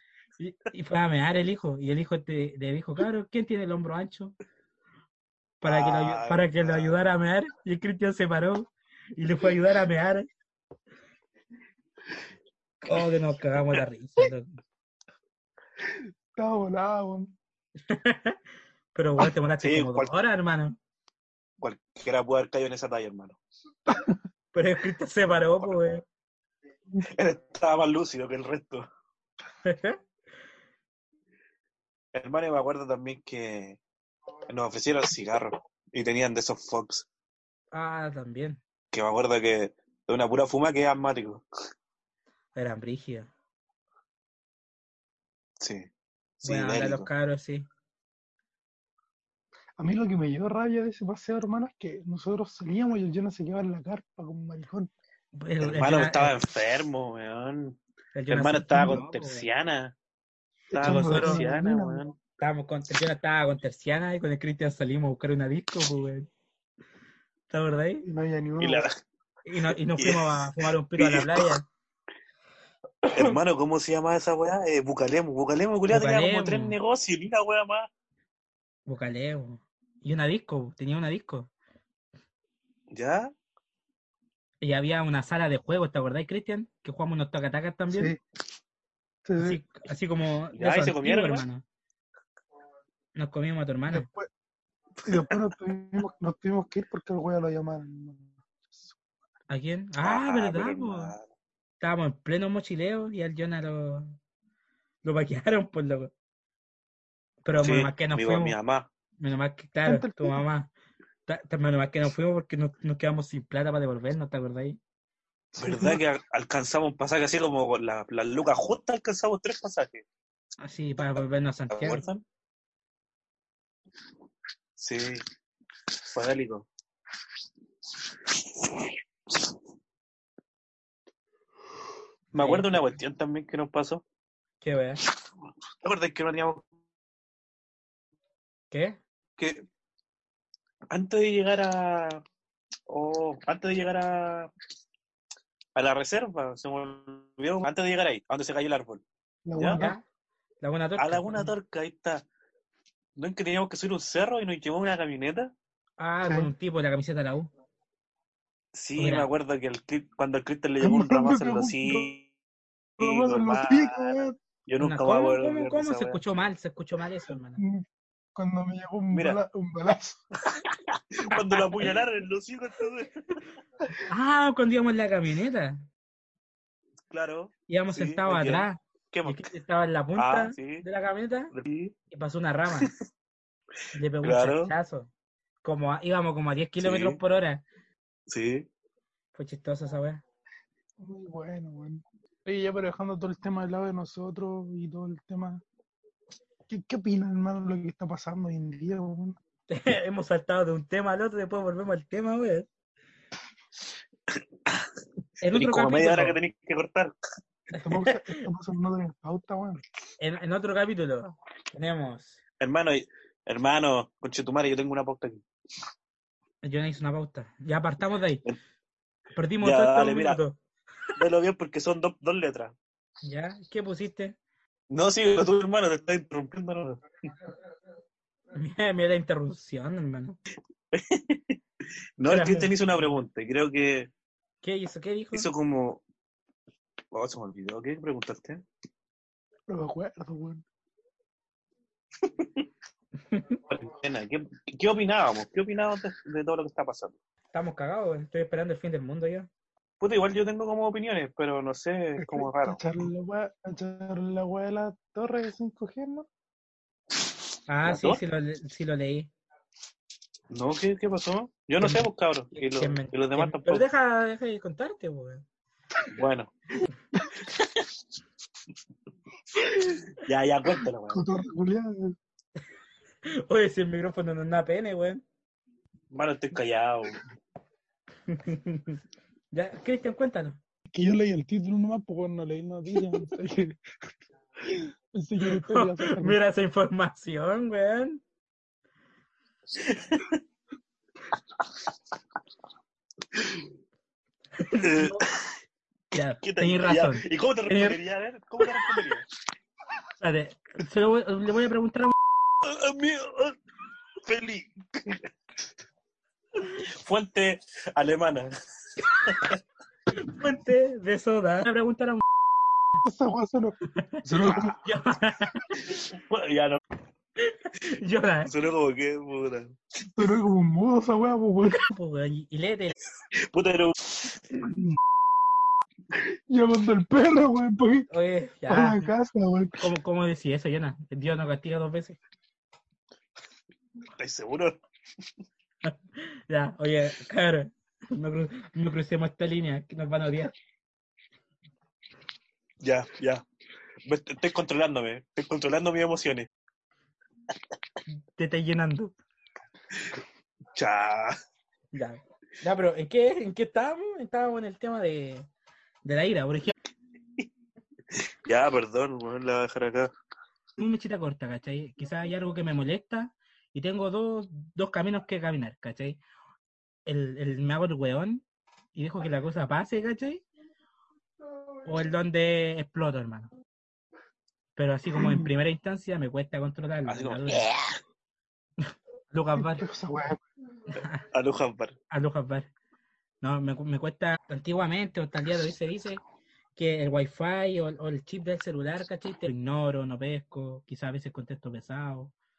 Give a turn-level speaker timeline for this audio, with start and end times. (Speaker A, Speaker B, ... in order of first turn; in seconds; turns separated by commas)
Speaker A: 0.4-4.3, Speaker A: 5.6-10.3, Speaker B: 5.6-7.0, Speaker A: 12.8-14.5, Speaker C: 15.8-17.3, Speaker A: 17.8-18.4, Speaker A: 18.9-20.8, Speaker B: 19.6-20.1, Speaker B: 21.6-23.4, Speaker C: 23.9-24.2, Speaker A: 24.5-26.0, Speaker B: 27.0-28.9, Speaker A: 29.6-30.0, Speaker B: 32.1-33.8, Speaker B: 34.5-37.1, Speaker A: 37.7-38.6, Speaker B: 38.9-41.4, Speaker A: 42.5-43.3, Speaker B: 45.6-45.9, Speaker B: 46.4-47.1, Speaker A: 46.4-47.7, Speaker C: 49.8-54.9, Speaker A: 55.3-56.4, Speaker B: 55.6-59.9, Speaker A: 58.1-59.5, Speaker C: 60.7-62.0, Speaker B: 60.7-62.2, Speaker A: 60.8-61.4, Speaker A: 62.4-66.3, Speaker A: 67.5-68.0, Speaker C: 68.0-68.8, Speaker B: 68.6-68.9, Speaker A: 69.5-71.6, Speaker B: 70.0-71.6, Speaker B: 73.1-77.9, Speaker A: 75.9-76.8, Speaker A: 78.8-81.5, Speaker B: 82.9-83.3, Speaker A: 84.6-88.1, Speaker C: 87.9-88.2, Speaker C: 89.2-89.6, Speaker A: 89.4-91.6, Speaker B: 90.5-91.5, Speaker A: 93.1-94.1, Speaker C: 93.9-94.3, Speaker C: 95.0-98.9, Speaker A: 99.5-101.1, Speaker B: 100.0-101.2, Speaker A: 101.8-104.2, Speaker A: 105.0-106.1, Speaker A: 107.4-108.6, Speaker B: 107.5-108.9, Speaker A: 109.2-110.7, Speaker C: 109.8-110.4, Speaker A: 111.3-114.8, Speaker C: 115.5-116.0, Speaker B: 115.6-120.0, Speaker A: 120.6-122.0, Speaker B: 121.7-122.2, Speaker B: 124.8-125.2, Speaker B: 126.1-126.7, Speaker A: 132.3-132.9, Speaker B: 132.3-134.0, Speaker A: 134.6-135.0, Speaker B: 135.8-136.6, Speaker A: 138.7-139.0, Speaker B: 139.4-139.6, Speaker B: 140.9-142.2, Speaker B: 142.9-144.5, Speaker B: 145.7-149.0, Speaker C: 149.4-150.0, Speaker B: 149.5-149.8, Speaker A: 149.7-150.0, Speaker A: 150.6-151.5, Speaker B: 151.0-152.2, Speaker B: 153.2-155.5, Speaker A: 156.0-157.5, Speaker C: 156.2-156.5, Speaker B: 158.7-162.3, Speaker A: 158.9-159.3, Speaker C: 160.8-162.1, Speaker B: 163.0-166.2, Speaker C: 163.0-164.3, Speaker A: 164.8-167.6, Speaker C: 167.6-167.8, Speaker C: 168.3-170.2, Speaker B: 169.1-169.4, Speaker B: 170.4-173.4, Speaker A: 174.1-175.9, Speaker B: 177.1-179.4, Speaker A: 177.7-181.5, Speaker B: 180.2-180.8, Speaker B: 181.5-181.9, Speaker A: 182.1-182.9, Speaker A: 183.9-185.1, Speaker B: 184.2-184.7, Speaker A: 185.6-187.6, Speaker B: 186.8-187.2, Speaker B: 188.3-188.7, Speaker A: 189.3-190.2, Speaker C: 191.0-195.6, Speaker C: 196.7-199.4, Speaker A: 199.7-202.7, Speaker A: 205.4-206.4, Speaker B: 205.4-207.1, Speaker C: 207.7-209.8, Speaker A: 207.8-208.4, Speaker A: 210.2-212.4, Speaker B: 212.6-215.4, Speaker A: 216.6-218.4, Speaker A: 219.3-220.6, Speaker B: 219.6-220.4, Speaker B: 221.2-222.7, Speaker A: 223.2-224.4, Speaker B: 224.9-227.0, Speaker A: 228.5-230.4, Speaker B: 230.9-231.6, Speaker B: 232.2-234.1, Speaker A: 232.3-232.7, Speaker A: 234.6-235.5, Speaker B: 235.3-236.0, Speaker B: 237.1-238.6, Speaker C: 239.7-240.6, Speaker B: 242.2-242.6, Speaker B: 243.7-247.2, Speaker A: 247.5-249.5, Speaker B: 250.0-252.8, Speaker C: 252.2-256.3, Speaker A: 257.7-259.3, Speaker B: 257.8-258.2, Speaker B: 260.5-263.8, Speaker A: 261.8-265.4, Speaker B: 266.1-266.5, Speaker C: 269.5-270.0, Speaker B: 270.2-271.2, Speaker C: 271.1-272.2, Speaker A: 273.2-275.2, Speaker B: 276.1-277.2, Speaker A: 278.3-279.0, Speaker A: 279.5-280.6, Speaker C: 280.9-283.8, Speaker C: 284.6-286.4, Speaker A: 285.5-288.2, Speaker B: 289.8-290.4, Speaker A: 294.6-295.2, Speaker B: 294.8-295.6, Speaker A: 296.1-298.0, Speaker B: 296.4-299.2, Speaker A: 300.2-302.1, Speaker B: 302.6-303.6, Speaker B: 304.2-305.2, Speaker B: 306.8-309.6, Speaker A: 310.1-312.2, Speaker C: 313.0-314.8, Speaker A: 313.9-315.8, Speaker B: 315.9-316.8, Speaker A: 317.4-318.5, Speaker B: 318.4-319.8, Speaker C: 320.0-321.9, Speaker A: 321.7-322.9, Speaker B: 323.4-324.1, Speaker C: 324.5-325.0, Speaker C: 326.1-328.1, Speaker A: 328.1-329.1, Speaker C: 328.7-329.9, Speaker A: 329.8-332.2, Speaker B: 334.2-334.8, Speaker A: 335.8-340.5, Speaker B: 342.8-343.4, Speaker B: 344.1-346.5, Speaker A: 348.3-349.1, Speaker B: 350.7-351.4, Speaker A: 351.9-355.5, Speaker A: 356.0-356.7, Speaker B: 358.1-360.1, Speaker A: 360.8-366.2, Speaker A: 367.1-368.4, Speaker A: 368.9-370.4, Speaker A: 371.8-373.5, Speaker A: 374.8-377.7, Speaker C: 375.1-375.5, Speaker B: 377.1-378.0, Speaker A: 378.8-379.9, Speaker C: 379.6-380.4, Speaker B: 381.3-382.0, Speaker A: 382.1-382.7, Speaker A: 383.4-386.2, Speaker A: 386.8-392.3